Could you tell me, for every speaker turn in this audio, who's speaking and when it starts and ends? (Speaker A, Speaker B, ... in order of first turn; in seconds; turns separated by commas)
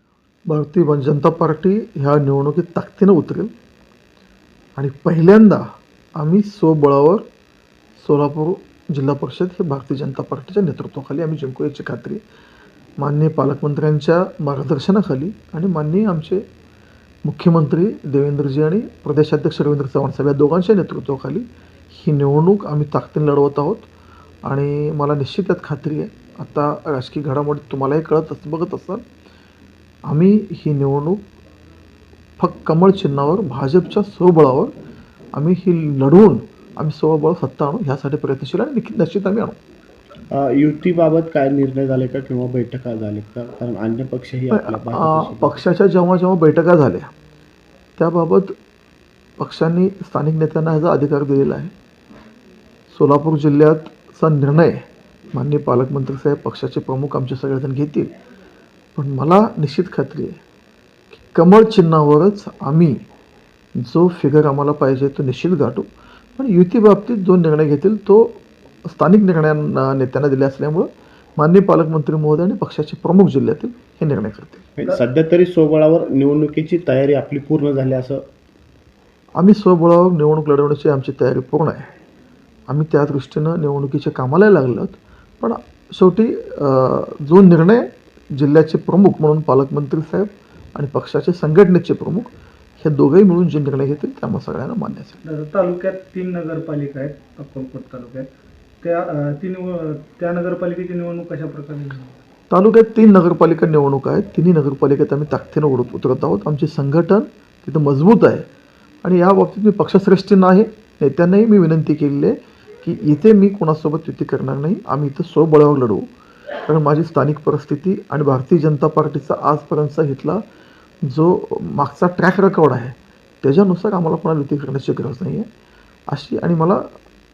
Speaker A: 0.5-3.5, Speaker A: 4.8-5.6, Speaker A: 6.2-7.2, Speaker A: 8.0-12.2, Speaker A: 13.0-16.4, Speaker A: 17.2-23.9, Speaker A: 24.4-29.0, Speaker A: 30.1-31.2, Speaker A: 32.4-34.7, Speaker A: 35.3-39.5, Speaker B: 40.3-45.6, Speaker A: 44.5-47.1, Speaker A: 48.0-48.5, Speaker A: 49.4-51.7, Speaker A: 52.9-54.8, Speaker A: 55.3-58.1, Speaker A: 59.0-60.4, Speaker A: 61.2-63.0, Speaker A: 63.8-65.9, Speaker A: 66.4-74.6, Speaker B: 74.8-78.2, Speaker A: 79.4-81.8, Speaker A: 82.7-92.3, Speaker A: 92.8-95.2, Speaker C: 95.2-98.2, Speaker C: 98.8-102.1, Speaker A: 102.5-108.4, Speaker A: 109.0-116.1, Speaker A: 116.7-120.4, Speaker A: 121.1-125.5, Speaker A: 126.1-126.8